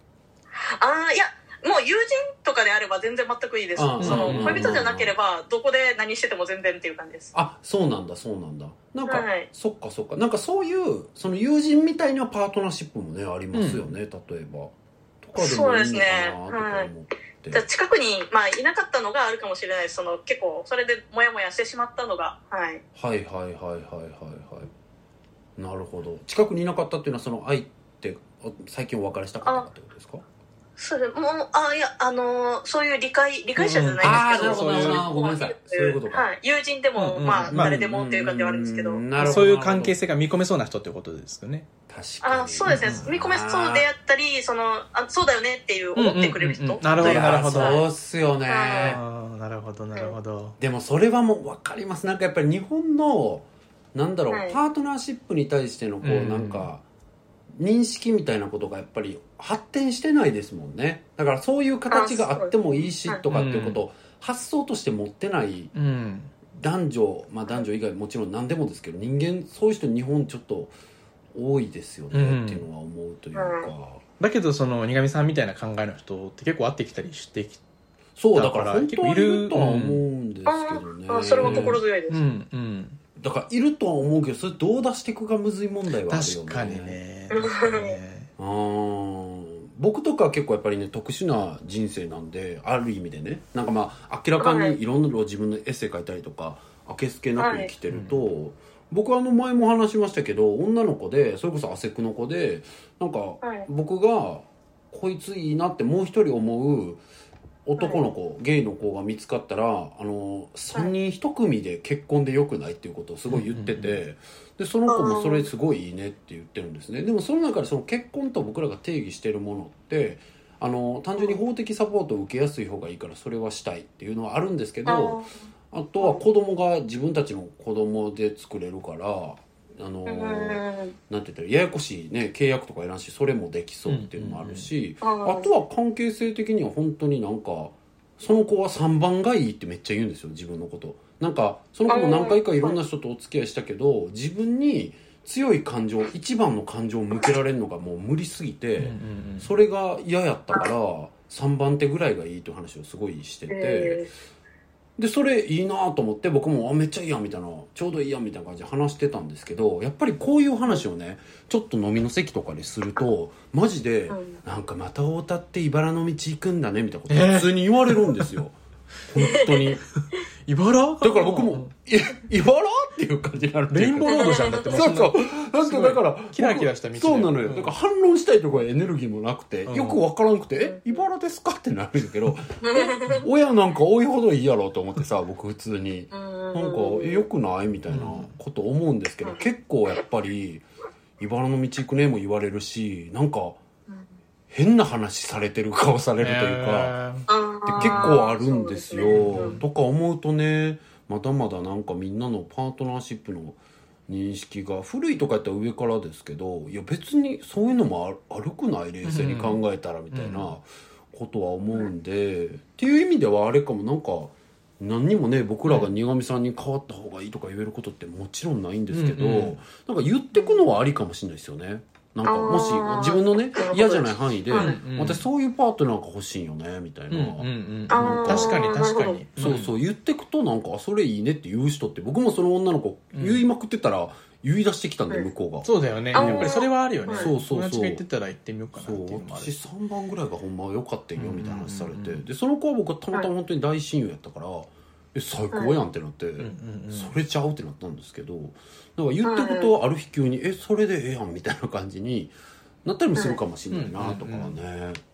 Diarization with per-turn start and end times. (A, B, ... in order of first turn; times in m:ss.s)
0:00.6-0:07.3 A
0:03.8-0:05.1 B
0:04.0-0:04.8 C
0:07.3-0:17.6 B
0:09.1-0:09.5 A
0:13.5-0:13.9 C
0:15.4-0:16.9 A
0:17.5-0:22.8 A
0:22.9-0:24.7 B
0:25.6-0:30.2 B
0:30.8-0:39.4 A
0:33.6-0:35.1 C
0:34.0-0:36.3 B
0:37.0-0:37.8 C
0:37.4-0:40.0 B
0:39.2-0:41.7 C
0:41.9-0:43.9 B
0:42.2-0:47.8 A
0:42.7-0:43.1 C
0:46.0-0:47.8 C
0:47.0-0:49.0 B
0:48.5-0:49.0 A
0:48.8-0:50.6 C
0:50.6-0:56.8 B
0:54.3-0:54.6 A
0:56.0-0:56.7 C
0:57.5-1:05.7 B
1:01.9-1:02.5 A
1:03.3-1:03.8 C
1:05.7-1:06.3 C
1:06.5-1:10.7 B
1:11.3-1:14.0 B
1:12.1-1:12.6 C
1:13.3-1:13.7 A
1:14.2-1:17.6 C
1:18.2-1:21.8 B
1:18.3-1:20.0 C
1:20.4-1:22.2 A
1:21.4-1:23.0 C
1:23.2-1:27.0 B
1:26.1-1:28.3 C
1:27.3-1:28.0 A
1:28.4-1:47.0 B
1:34.4-1:34.8 A
1:37.4-1:37.7 A
1:37.9-1:38.2 C
1:43.4-1:43.7 A
1:47.6-2:05.2 B
1:47.8-1:48.0 A
1:53.3-1:54.0 C
1:54.9-1:55.5 A
2:04.9-2:05.3 A
2:05.7-2:34.1 B
2:10.0-2:11.0 A
2:13.9-2:14.7 C
2:15.0-2:15.5 A
2:21.9-2:22.8 A
2:28.8-2:29.5 C
2:33.5-2:34.1 A
2:35.0-2:49.8 B
2:44.1-2:44.4 A
2:47.1-2:48.2 C
2:49.2-2:49.8 A
2:50.4-2:51.7 C
2:51.0-3:10.6 B
2:53.7-2:57.8 C
2:54.1-2:54.6 A
2:59.7-3:00.0 C
3:00.6-3:01.0 A
3:02.6-3:03.3 A
3:06.1-3:07.3 A
3:07.9-3:08.3 C
3:11.2-3:13.6 B
3:14.5-3:17.0 B
3:16.2-3:18.1 C
3:17.3-3:19.6 A
3:17.6-3:48.8 B
3:19.1-3:19.6 C
3:29.0-3:30.5 C
3:38.9-3:39.6 C
3:40.3-3:40.6 A
3:42.2-3:44.8 A
3:44.5-3:45.2 C
3:47.1-3:49.7 C
3:47.9-3:49.2 A
3:49.4-3:58.0 B
3:53.1-3:53.4 C
3:55.6-3:59.5 C
3:56.1-3:57.3 A
3:58.8-4:12.3 B
4:01.2-4:02.2 C
4:06.4-4:07.1 C
4:09.2-4:09.7 A
4:12.8-4:15.0 B
4:13.7-4:14.5 C